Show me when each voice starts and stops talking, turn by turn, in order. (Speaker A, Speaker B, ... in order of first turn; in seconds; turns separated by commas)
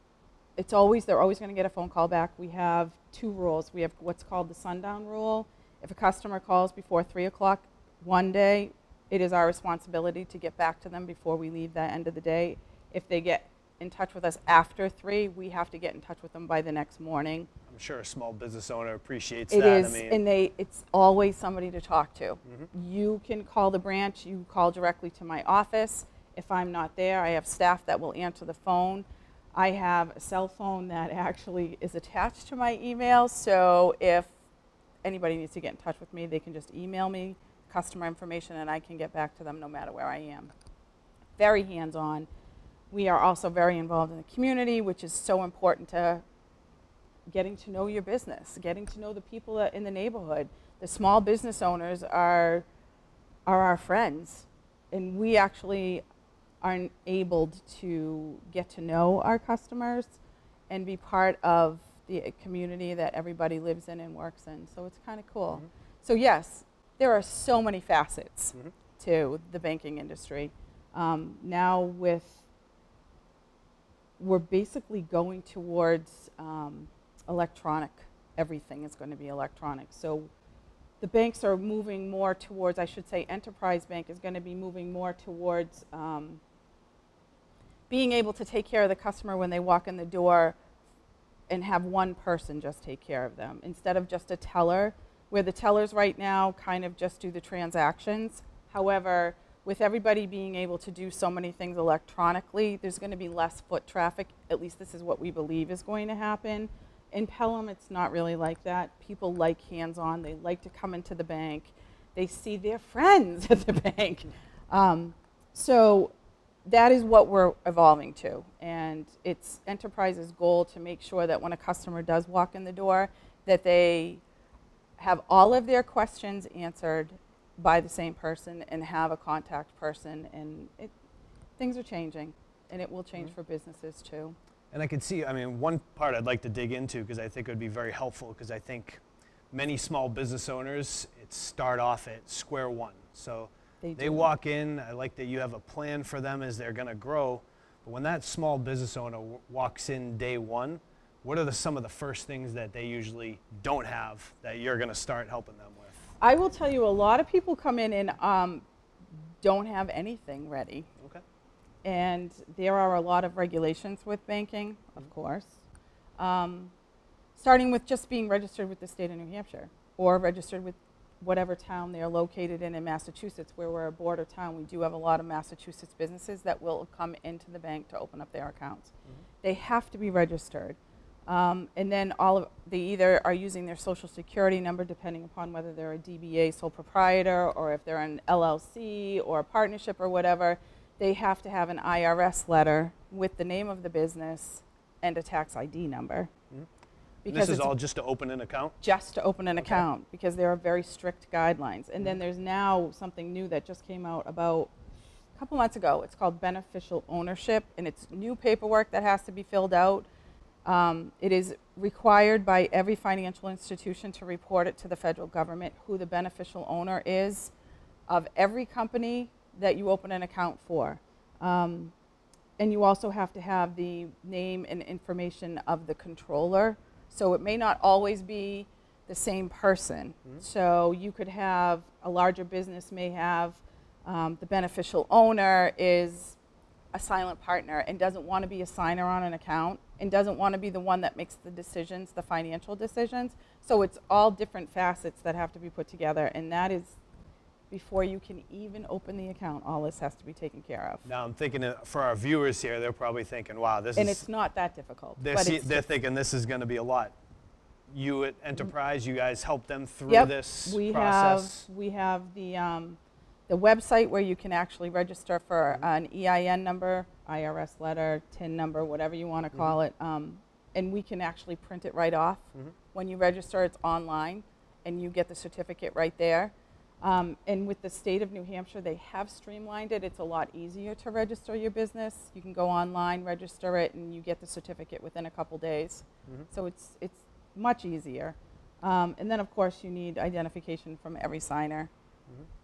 Speaker A: 0.6-17.5, Speaker B: 17.7-20.2, Speaker A: 19.5-34.3, Speaker A: 35.0-40.5, Speaker A: 41.4-42.3, Speaker A: 42.9-46.2, Speaker A: 47.3-52.6, Speaker A: 53.5-56.0, Speaker A: 56.6-60.2, Speaker A: 60.7-72.4, Speaker A: 74.2-80.3, Speaker A: 81.0-86.4, Speaker A: 87.9-90.6, Speaker A: 91.5-116.1, Speaker A: 116.6-124.2, Speaker A: 125.0-130.9, Speaker A: 131.6-134.3, Speaker B: 134.7-139.0, Speaker B: 139.5-156.0, Speaker A: 143.8-144.3, Speaker A: 156.2-158.6, Speaker A: 159.4-160.9, Speaker A: 161.8-165.6, Speaker A: 166.2-166.7, Speaker A: 167.3-196.3, Speaker A: 197.2-197.7, Speaker B: 197.3-198.8, Speaker A: 198.8-204.7, Speaker B: 199.6-199.8, Speaker A: 205.3-210.1, Speaker A: 210.6-217.5, Speaker A: 218.1-221.9, Speaker A: 222.6-236.4, Speaker A: 236.9-247.0, Speaker A: 247.7-251.1, Speaker B: 251.1-254.2, Speaker A: 253.9-255.9, Speaker B: 255.2-257.1, Speaker B: 257.9-261.7, Speaker A: 260.1-291.9